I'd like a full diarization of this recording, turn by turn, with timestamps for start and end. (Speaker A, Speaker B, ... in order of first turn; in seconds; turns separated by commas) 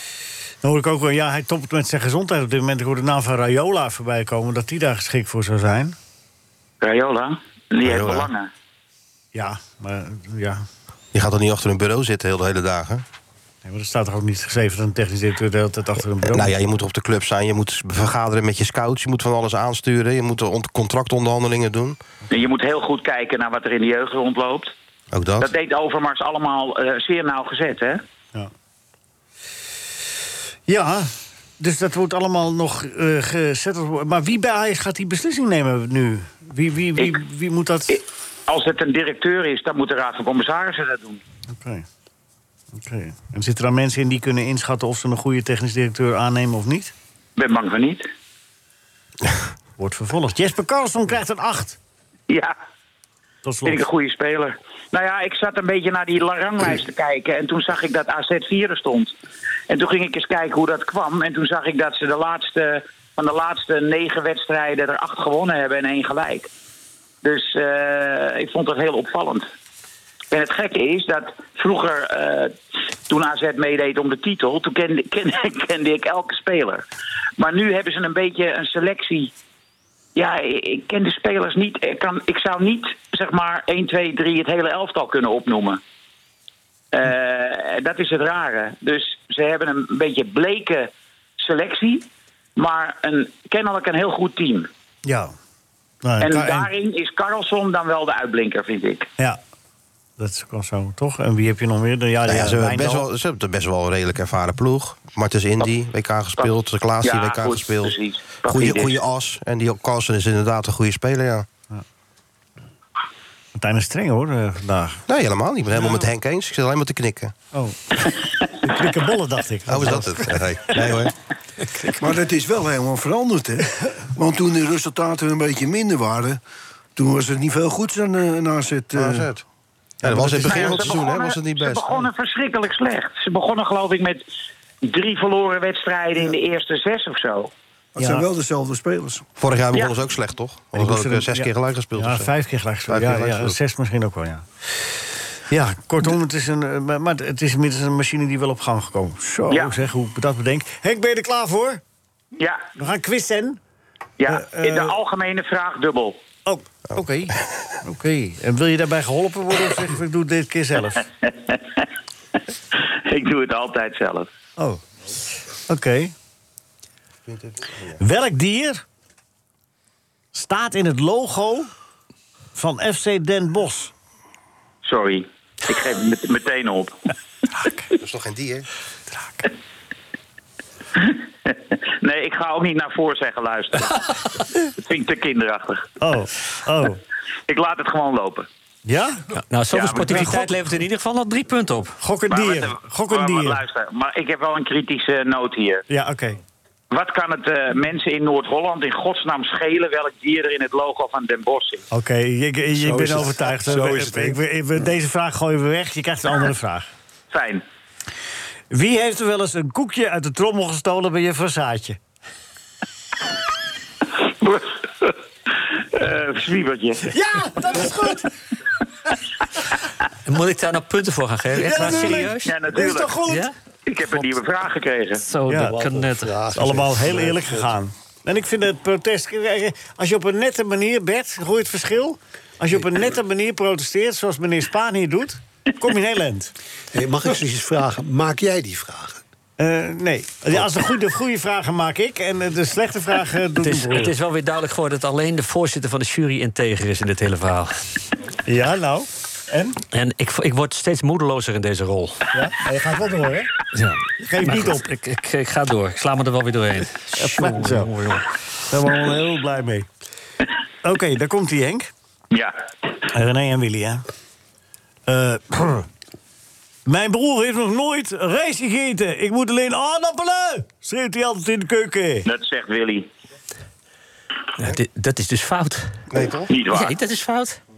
Speaker A: 0.6-6.0, Speaker B: 6.8-8.5, Speaker C: 7.8-8.3, Speaker A: 9.3-10.7, Speaker C: 11.1-13.0, Speaker A: 13.6-16.5, Speaker C: 16.3-22.0, Speaker B: 22.3-24.7, Speaker C: 25.1-25.5, Speaker B: 25.4-28.0, Speaker A: 30.7-38.0, Speaker B: 37.9-41.2, Speaker A: 41.5-41.9, Speaker A: 42.7-46.9, Speaker B: 47.4-48.1, Speaker A: 49.8-51.8, Speaker B: 52.3-52.5, Speaker A: 53.4-53.8, Speaker B: 53.6-59.1, Speaker B: 59.7-66.5, Speaker B: 67.2-69.5, Speaker B: 70.3-72.5, Speaker B: 73.1-76.8, Speaker B: 77.4-79.3, Speaker B: 80.2-85.8, Speaker B: 86.9-94.7, Speaker A: 95.0-95.3, Speaker A: 96.0-96.7, Speaker B: 96.2-99.1, Speaker A: 100.2-103.0, Speaker C: 102.3-108.0, Speaker B: 106.4-109.0, Speaker C: 108.5-111.5, Speaker A: 113.5-115.0, Speaker C: 115.1-117.3, Speaker A: 117.5-118.0, Speaker A: 118.5-121.0, Speaker C: 119.7-121.1, Speaker D: 122.0-126.4, Speaker D: 127.0-129.3, Speaker C: 128.9-129.4, Speaker C: 130.0-132.1, Speaker D: 130.1-130.7, Speaker A: 130.1-130.7, Speaker B: 130.3-134.3, Speaker B: 134.8-137.5, Speaker D: 137.9-139.3, Speaker A: 138.0-138.3, Speaker C: 139.4-142.3, Speaker A: 140.7-144.4, Speaker C: 142.9-143.5, Speaker A: 145.5-151.8, Speaker B: 152.4-152.7, Speaker A: 152.8-153.6, Speaker B: 154.2-156.2, Speaker A: 154.3-155.0, Speaker A: 156.4-161.0, Speaker B: 161.2-161.9, Speaker B: 162.7-164.3, Speaker A: 165.7-166.1, Speaker A: 168.0-168.8, Speaker A: 170.3-171.7, Speaker A: 172.6-173.9, Speaker B: 174.8-176.9, Speaker C: 178.0-178.7, Speaker B: 180.9-184.1, Speaker B: 184.8-185.9, Speaker A: 186.0-187.0, Speaker B: 187.5-188.5, Speaker A: 188.8-189.2, Speaker E: 189.5-192.0, Speaker B: 189.7-190.3, Speaker A: 190.0-190.5, Speaker A: 192.0-193.6, Speaker B: 192.3-195.8, Speaker A: 195.9-196.4, Speaker B: 196.9-201.8, Speaker A: 201.9-206.9, Speaker F: 202.8-204.4, Speaker B: 207.3-207.6, Speaker A: 208.7-212.0, Speaker B: 214.3-217.1, Speaker A: 217.1-218.3, Speaker E: 220.2-222.5, Speaker A: 221.6-223.5, Speaker B: 222.4-223.2, Speaker E: 223.3-223.5, Speaker B: 223.9-225.2, Speaker E: 225.2-226.3, Speaker A: 225.5-225.8, Speaker F: 225.5-227.7, Speaker A: 226.5-236.5, Speaker F: 236.9-239.2, Speaker A: 239.6-244.1, Speaker E: 243.6-247.8, Speaker A: 248.4-249.8, Speaker E: 249.9-252.2, Speaker A: 252.3-253.5, Speaker E: 253.7-258.3, Speaker A: 254.2-254.9, Speaker A: 257.2-257.9, Speaker A: 258.7-259.9, Speaker A: 260.8-261.9, Speaker B: 262.3-262.6, Speaker A: 263.1-264.1, Speaker A: 265.1-265.9, Speaker A: 266.9-272.3, Speaker B: 272.2-273.1, Speaker E: 274.6-275.9, Speaker C: 276.1-276.5, Speaker B: 276.5-276.9, Speaker E: 276.7-277.6